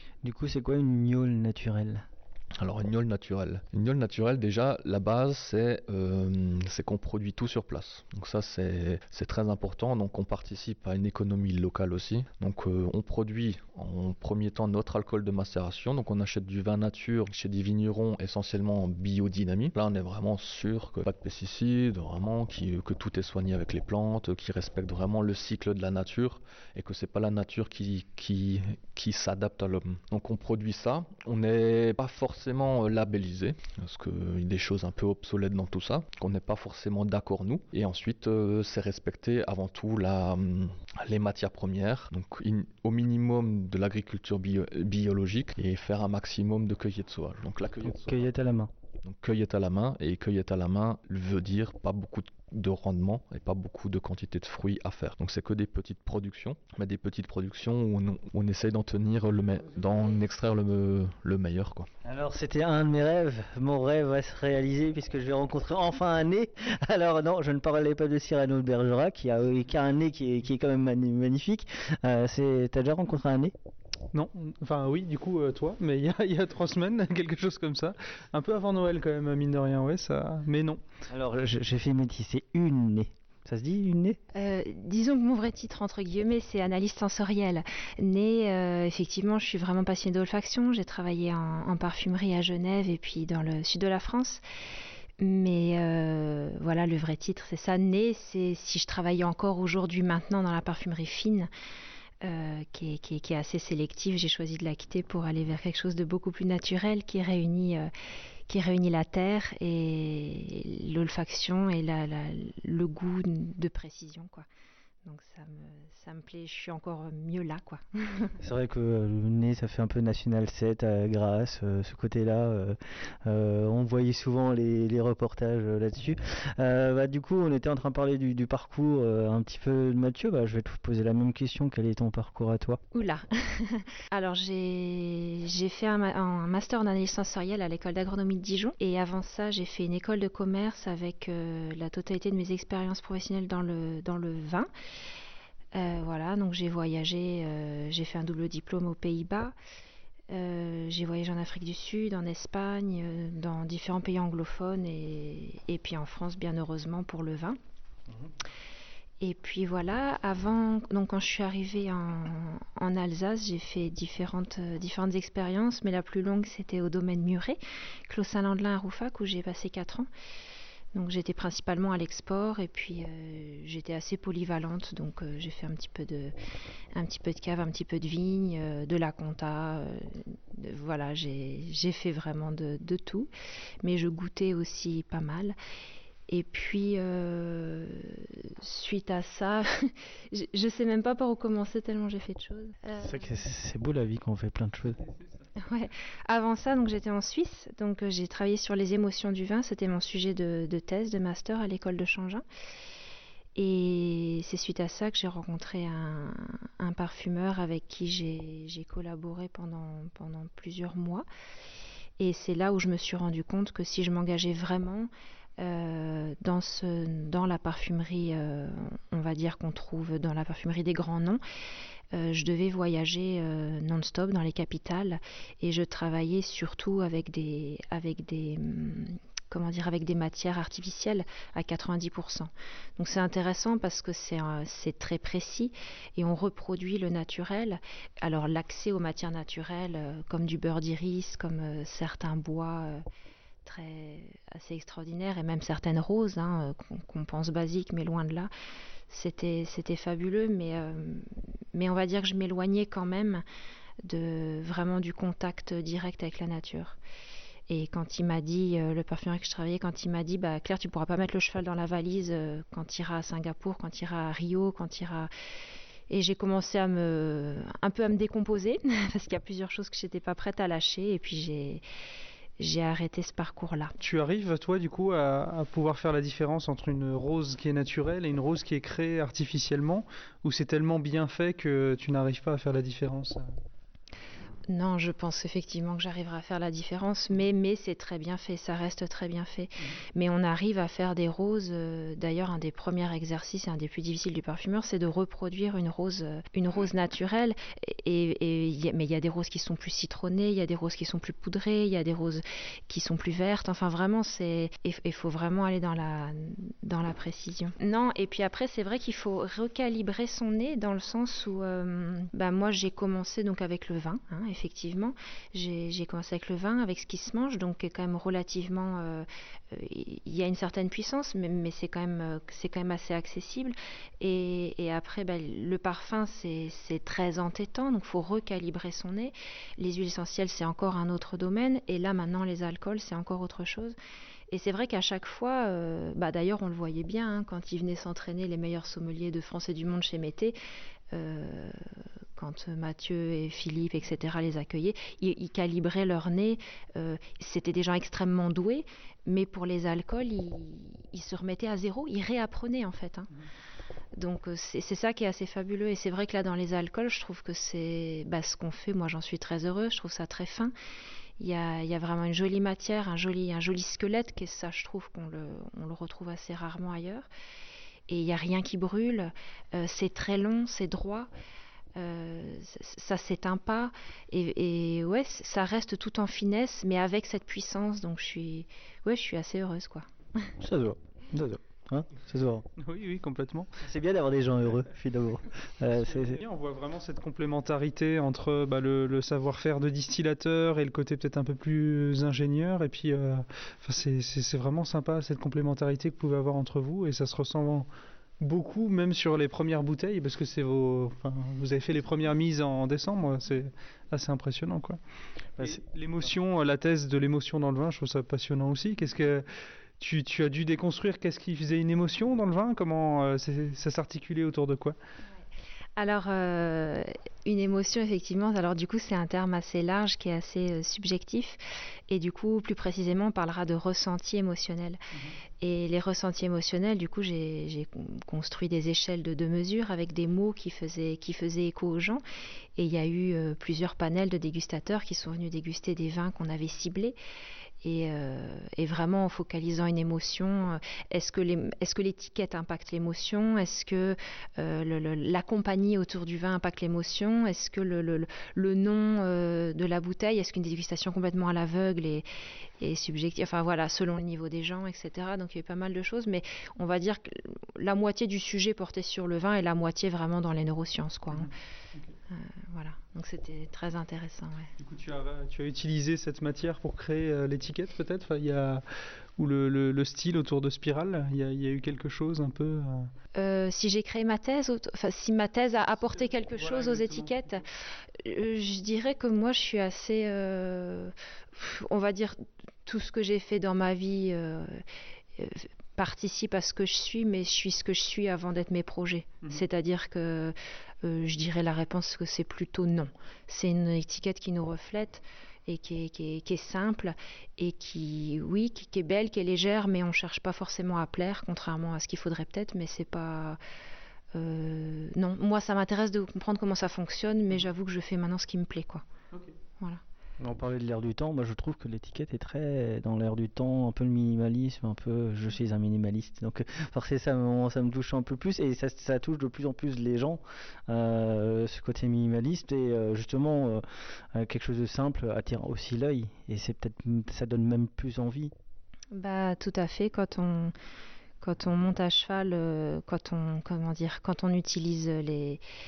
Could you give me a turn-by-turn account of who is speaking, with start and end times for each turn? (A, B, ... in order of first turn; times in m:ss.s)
0:00.2-0:02.0 A
0:02.6-0:48.3 B
0:47.9-0:48.7 A
0:49.0-1:01.9 B
1:02.0-1:13.5 A
1:14.1-1:20.8 C
1:21.1-1:24.2 A
1:24.3-1:34.4 D
1:35.2-1:41.5 D
1:42.2-1:47.9 D
1:48.5-1:54.4 D
1:55.0-1:58.3 D
1:58.4-2:12.8 A
2:12.9-2:24.7 D
2:25.7-2:29.5 D
2:30.3-2:37.6 D
2:39.2-2:50.1 D
2:50.9-2:56.3 D
2:56.9-3:03.3 D
3:03.8-3:05.6 D
3:06.3-3:13.2 D
3:13.0-3:15.0 A
3:15.6-3:22.4 D
3:23.6-3:31.2 D
3:32.2-3:41.4 D
3:42.1-4:03.0 D
4:03.6-4:08.5 D
4:09.1-4:13.4 D
4:14.0-4:17.0 D
4:17.7-4:25.3 D
4:26.1-4:31.8 D
4:32.6-4:33.9 D
4:34.0-4:43.5 C
4:44.7-5:34.0 D
5:34.5-5:40.5 D
5:41.1-5:41.8 D
5:42.4-5:53.3 D
5:54.1-6:00.7 D
6:01.4-6:07.3 D
6:08.1-6:11.3 D
6:12.0-6:20.0 D
6:20.6-6:22.6 A
6:22.8-6:23.7 C
6:23.8-6:26.4 A
6:25.9-6:37.9 C
6:38.4-6:45.0 C
6:45.6-6:49.4 C
6:50.0-6:55.0 C
6:56.0-7:01.6 D
7:02.1-7:05.0 D
7:05.6-7:12.2 D
7:12.8-7:17.2 D
7:17.8-7:32.2 D
7:32.8-7:41.5 D
7:41.3-7:42.0 C
7:42.3-7:44.7 D
7:44.8-7:48.8 C
7:49.4-7:53.1 C
7:53.4-7:57.6 D
7:56.4-7:57.4 C
7:58.2-8:04.8 D
8:05.4-8:23.6 D
8:24.3-8:29.0 D
8:30.4-8:43.8 A
8:44.3-8:48.5 A
8:49.1-8:50.7 D
8:51.4-8:55.6 D